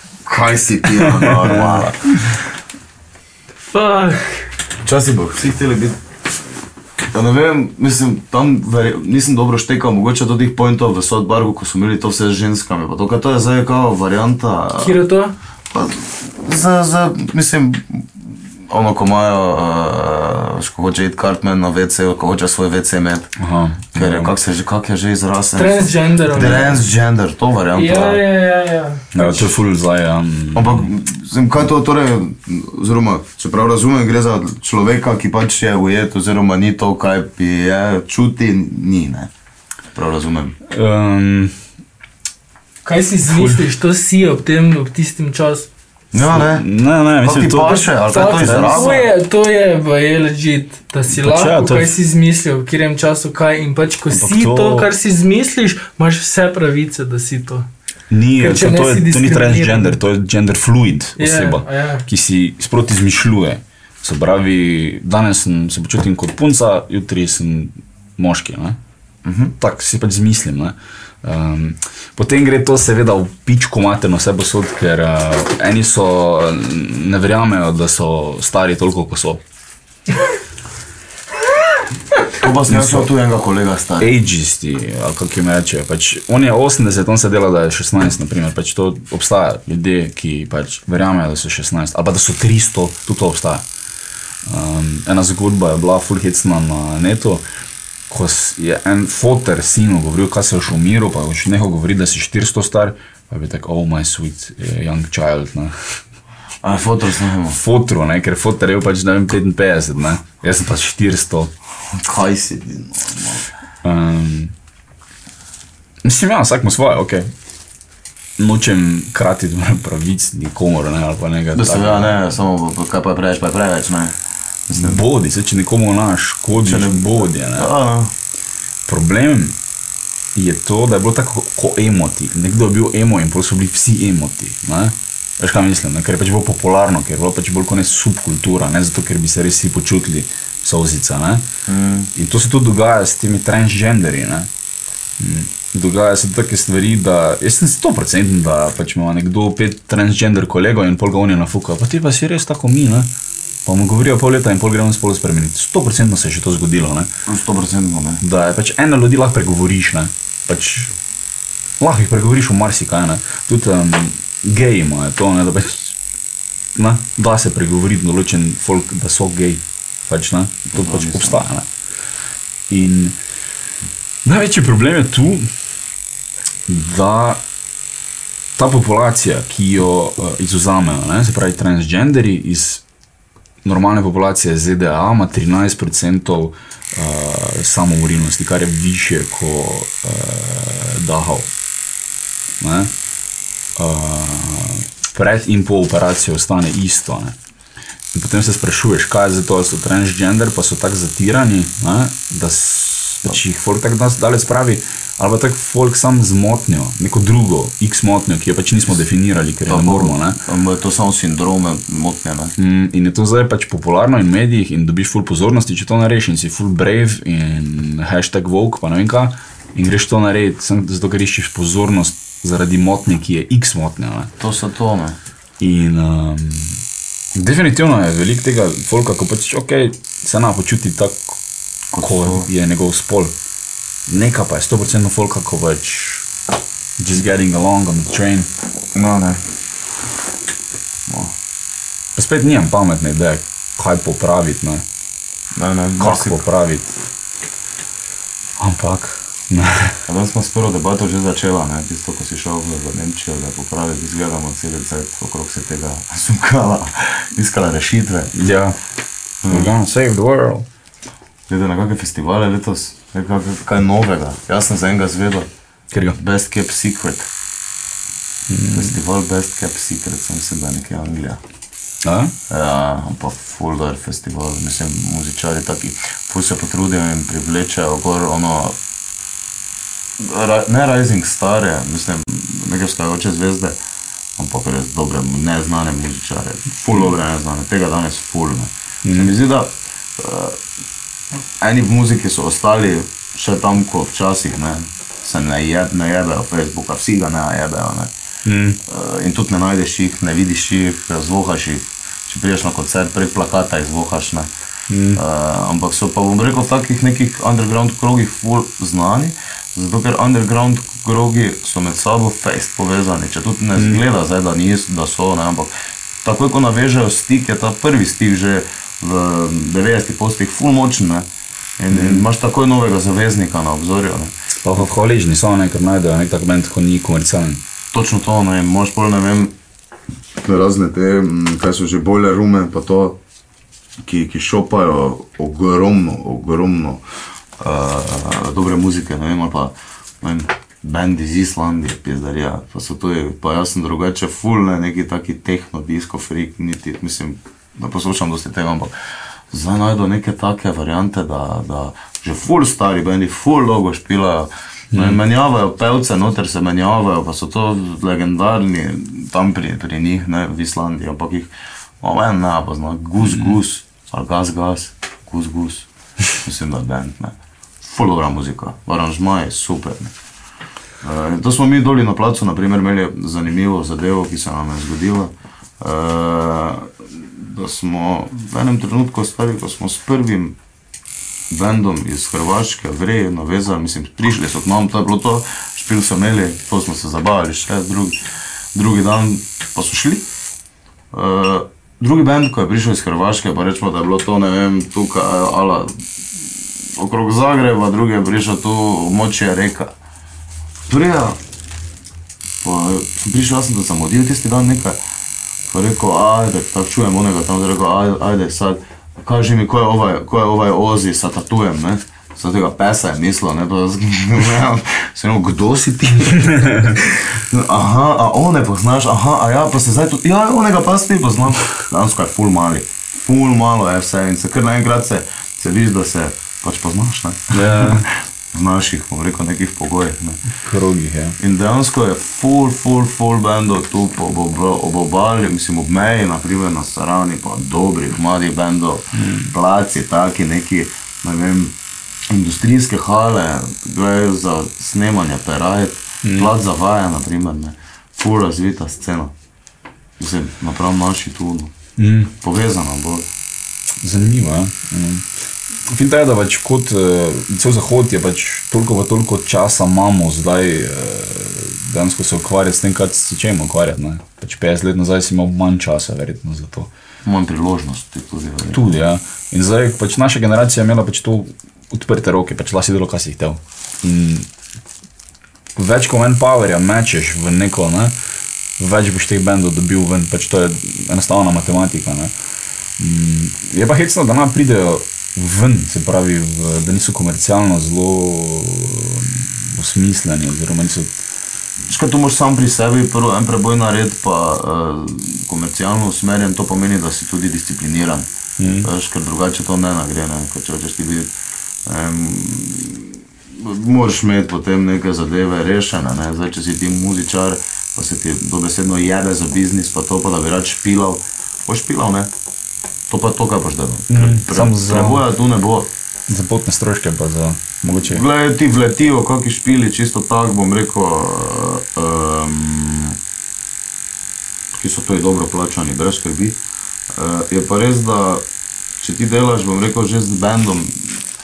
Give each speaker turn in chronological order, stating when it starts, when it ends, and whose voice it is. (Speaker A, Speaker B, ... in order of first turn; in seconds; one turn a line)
Speaker A: 0.3-2.4
Speaker B: 1.2-1.8
Speaker C: 3.7-4.5
Speaker A: 4.8-6.0
Speaker A: 7.1-15.0
Speaker C: 14.8-15.3
Speaker A: 15.7-23.3
Speaker B: 23.4-24.4
Speaker A: 23.9-28.2
Speaker C: 25.6-26.9
Speaker C: 27.7-29.6
Speaker B: 29.1-30.9
Speaker A: 30.5-39.3
Speaker A: 40.0-40.6
Speaker B: 40.7-41.6
Speaker C: 42.9-45.7
Speaker B: 43.2-43.6
Speaker A: 46.1-46.7
Speaker B: 46.2-49.1
Speaker A: 47.2-49.0
Speaker C: 48.0-57.7
Speaker B: 51.1-52.0
Speaker B: 54.1-54.9
Speaker B: 58.1-68.8
Speaker C: 58.4-60.0
Speaker C: 61.2-62.0
Speaker A: 69.2-69.5
Speaker B: 69.6-79.4
Speaker A: 82.4-84.1
Speaker B: 82.7-83.1
Speaker B: 84.0-93.7
Speaker B: 94.5-97.4
Speaker B: 98.1-106.0
Speaker A: 106.6-107.6
Speaker B: 107.5-111.5
Speaker A: 111.9-113.5
Speaker B: 113.8-114.5
Speaker B: 116.0-117.3
Speaker B: 118.4-122.2
Speaker A: 121.5-125.0
Speaker B: 124.7-127.7
Speaker A: 126.6-128.1
Speaker B: 128.9-129.6
Speaker B: 130.3-141.5
Speaker A: 141.7-142.1
Speaker B: 142.2-144.5
Speaker B: 145.2-153.1
Speaker B: 153.7-157.1
Speaker A: 157.3-158.2
Speaker B: 158.2-160.9
Speaker B: 161.8-165.9
Speaker B: 166.8-171.7
Speaker A: 170.7-171.4
Speaker B: 172.7-173.2
Speaker B: 174.3-175.5
Speaker B: 176.7-177.4
Speaker B: 178.6-182.8
Speaker B: 183.6-191.5
Speaker B: 192.6-192.9
Speaker B: 193.8-197.4
Speaker B: 198.1-210.4
Speaker A: 209.7-212.5
Speaker B: 212.6-224.3
Speaker A: 224.4-225.2
Speaker B: 225.6-226.8
Speaker B: 227.4-231.4
Speaker A: 231.9-232.5
Speaker B: 232.0-233.3
Speaker B: 234.1-236.3
Speaker B: 237.0-238.5
Speaker A: 238.9-239.4
Speaker A: 241.1-241.3
Speaker B: 242.2-244.8
Speaker A: 245.5-246.4
Speaker B: 246.0-246.9
Speaker B: 248.6-250.0
Speaker A: 250.1-258.3
Speaker B: 258.3-258.8
Speaker A: 259.4-259.7
Speaker B: 259.5-260.7
Speaker A: 261.5-265.5
Speaker B: 265.9-266.2
Speaker A: 266.1-267.3
Speaker B: 268.5-269.0
Speaker A: 268.7-271.4
Speaker B: 272.0-272.4
Speaker A: 272.5-278.8
Speaker A: 280.2-283.8
Speaker A: 284.4-290.6
Speaker B: 289.1-289.3
Speaker A: 291.6-298.1
Speaker B: 298.4-298.8
Speaker A: 298.9-304.5
Speaker B: 304.9-305.2
Speaker A: 305.1-315.7
Speaker B: 313.8-314.0
Speaker A: 316.2-321.3
Speaker A: 321.8-324.3
Speaker B: 321.9-322.3
Speaker B: 324.6-327.6
Speaker A: 327.9-329.5
Speaker A: 330.4-333.2
Speaker A: 334.0-337.0
Speaker A: 337.6-348.9
Speaker A: 349.5-370.1
Speaker B: 354.9-355.2
Speaker A: 371.0-380.6
Speaker A: 381.5-388.2
Speaker A: 388.7-390.3
Speaker A: 391.1-395.9
Speaker A: 396.9-399.9
Speaker A: 400.9-401.4
Speaker A: 402.6-405.0
Speaker A: 405.7-430.4
Speaker B: 427.5-428.1
Speaker B: 430.6-431.4
Speaker A: 431.4-441.8
Speaker B: 439.1-439.5
Speaker A: 442.3-449.3
Speaker B: 446.2-446.5
Speaker A: 450.2-451.7
Speaker B: 452.0-452.3
Speaker A: 452.4-453.3
Speaker B: 454.0-455.3
Speaker B: 455.9-466.9
Speaker A: 467.2-468.8
Speaker B: 468.7-474.5
Speaker B: 475.8-478.1
Speaker B: 478.8-482.3
Speaker B: 483.0-491.2
Speaker A: 491.9-498.3
Speaker B: 498.6-498.9
Speaker A: 498.8-501.3
Speaker A: 501.9-512.3
Speaker A: 513.1-515.9
Speaker B: 514.1-515.2
Speaker B: 516.3-518.2
Speaker A: 518.0-523.2
Speaker A: 524.7-526.6
Speaker A: 527.1-528.4
Speaker A: 529.0-531.2